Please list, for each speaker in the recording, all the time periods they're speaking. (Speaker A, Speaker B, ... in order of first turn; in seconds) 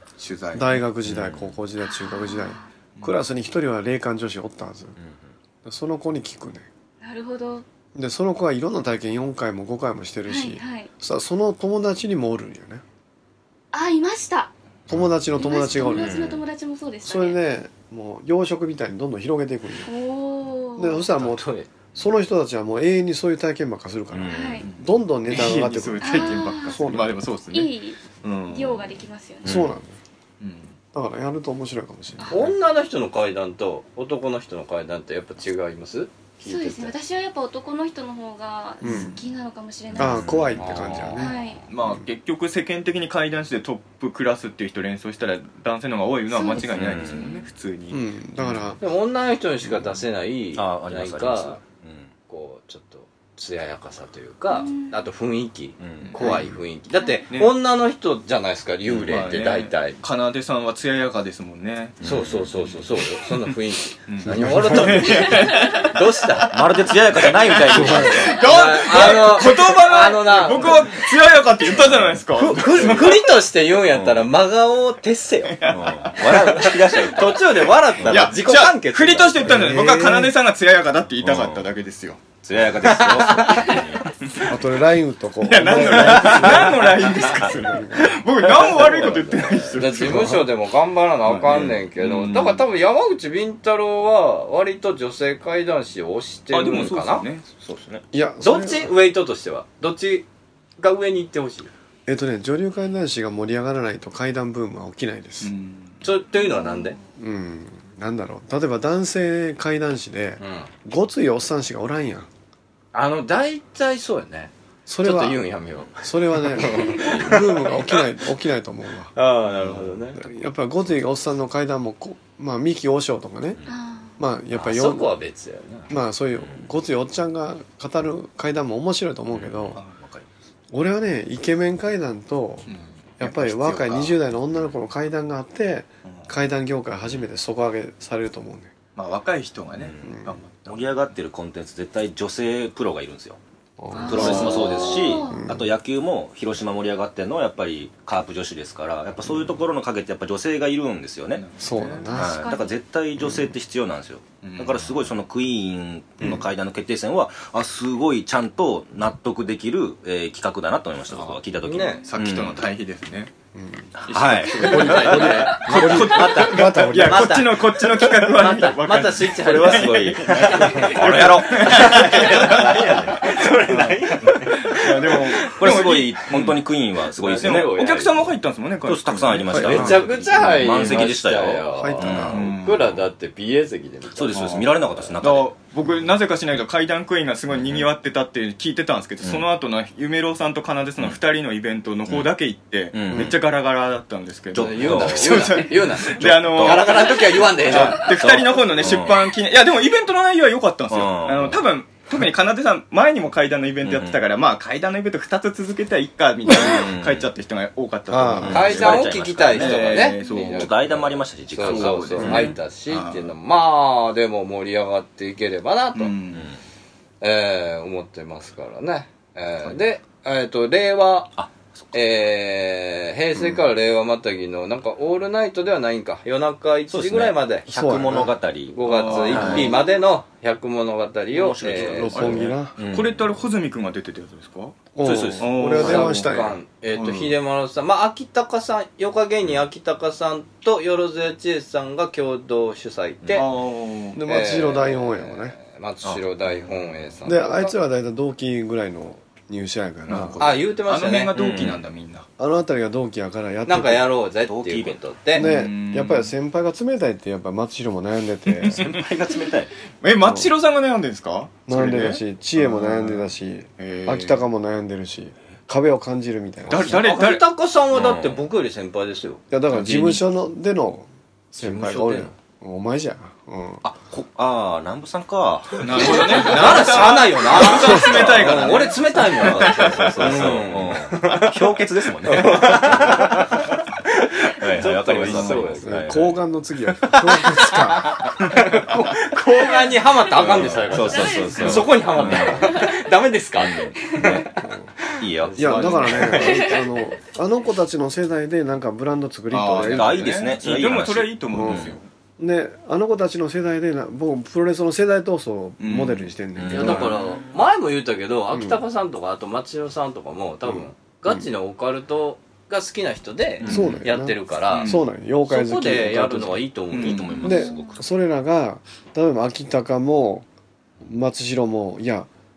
Speaker A: 0.2-0.8, 24.6-29.0, 30.4-30.8, 38.9-39.1, 41.7-48.1, 59.1-62.0, 64.1-73.2, 75.6-76.2, 78.0-82.3, 85.4-90.4, 91.3-92.6, 96.5-97.5, 105.4-106.0, 132.7-134.2, 136.1-136.3, 139.0-141.1, 144.1-144.6, 151.4-152.1, 154.4-155.0, 161.1-161.4, 162.0-163.3, 164.1-173.4, 174.6-176.6, 177.3-180.1, 182.1-182.9, 184.3-211.1, 211.7-213.3, 215.9-216.5, 228.8-229.7, 232.1-234.8, 235.4-236.4, 236.9-237.3, 243.3-244.2, 250.1-252.3, 255.4-256.3, 258.5-259.1, 260.0-264.5, 266.7-267.4, 275.8-280.7, 285.2-285.8, 299.5-302.0, 305.8-306.3, 313.7-313.9, 314.7-315.0, 316.9-317.4
Speaker B: 0.5-5.0, 5.6-6.7, 8.0-12.8, 14.9-16.3, 17.0-19.9, 20.8-21.4, 21.9-27.2, 29.4-30.0, 30.9-32.4, 38.8-39.2, 40.0-42.0, 47.9-48.8, 56.2-56.5, 79.5-80.3, 84.5-88.2, 89.9-90.5, 98.1-98.9, 102.1-105.5, 107.2-112.3, 114.9-115.4, 116.0-119.1, 120.2-123.6, 124.2-125.1, 125.9-129.8, 130.7-132.7, 133.2-138.7, 140.1-140.4, 143.8-144.6, 145.3-145.7, 151.6-152.5, 163.5-163.9, 164.9-167.4, 179.5-180.0, 181.8-182.5, 208.1-208.7, 227.7-228.3, 231.8-232.8, 235.0-236.6, 244.2-245.6, 247.2-250.5, 252.4-254.1, 255.3-258.8, 260.2-260.5, 261.7-267.0, 269.5-273.8, 285.8-288.3, 295.6-300.4, 301.5-307.1, 308.5-308.8, 310.7-311.5, 313.7-316.6, 317.4-320.5, 321.0-322.3
Speaker C: 1.1-1.5, 5.0-5.2, 14.9-16.4, 24.1-24.6, 29.4-29.7, 39.9-40.6, 46.7-47.3, 50.5-52.1, 55.8-56.2, 62.0-62.8, 64.3-65.1, 66.5-68.4, 71.8-73.2, 73.9-74.3, 75.7-78.3, 81.2-81.7, 82.4-84.1, 91.5-91.8, 97.6-98.0, 129.3-130.3, 139.7-143.4, 144.0-151.4, 152.1-162.6, 163.9-166.8, 169.4-173.9, 175.6-177.8, 178.8-182.6, 184.2-185.5, 187.5-187.9, 192.9-193.4, 194.5-199.3, 200.9-201.6, 203.8-204.2, 206.6-207.3, 208.4-212.5, 221.4-221.9, 226.9-229.7, 231.3-233.2, 235.0-236.0, 246.0-246.7, 251.3-251.8, 254.5-255.0, 258.7-259.7, 267.9-268.4, 273.8-278.7, 279.4-283.5, 284.6-286.4, 290.4-292.6, 293.6-294.5, 295.2-296.4, 299.8-302.0, 306.6-307.5, 313.6-314.0, 317.0-318.0
Speaker D: 1.8-2.7, 7.0-7.7, 10.3-10.9, 13.7-14.5, 15.4-17.4, 19.9-21.0, 24.3-24.7, 26.0-26.8, 27.5-29.6, 32.2-32.5, 36.4-40.4, 41.1-41.6, 46.3-47.5, 54.5-55.0, 57.0-57.2, 106.3-107.0, 123.7-124.2, 143.9-145.4, 152.2-152.8, 291.0-291.8, 294.1-294.4, 296.4-296.8, 317.4-318.0
Speaker E: 21.1-21.7, 32.3-37.0, 40.6-41.3, 48.8-51.6, 52.3-60.0, 62.0-66.6, 67.7-70.8, 72.3-79.7, 82.8-83.8, 89.0-97.3, 98.4-100.3, 100.8-101.7, 106.0-107.0, 110.4-110.7, 112.9-117.7, 119.2-120.4, 124.5-125.9, 161.6-162.0, 164.6-175.5, 177.2-178.3, 179.6-185.0, 194.6-198.1, 208.5-210.8, 211.5-216.1, 217.2-221.3, 221.9-227.7, 228.7-232.3, 235.6-243.5, 244.2-247.7, 250.4-251.3, 253.7-255.5, 266.8-270.2, 271.6-272.3, 276.0-285.9, 287.0-294.4, 295.1-296.8, 306.7-317.6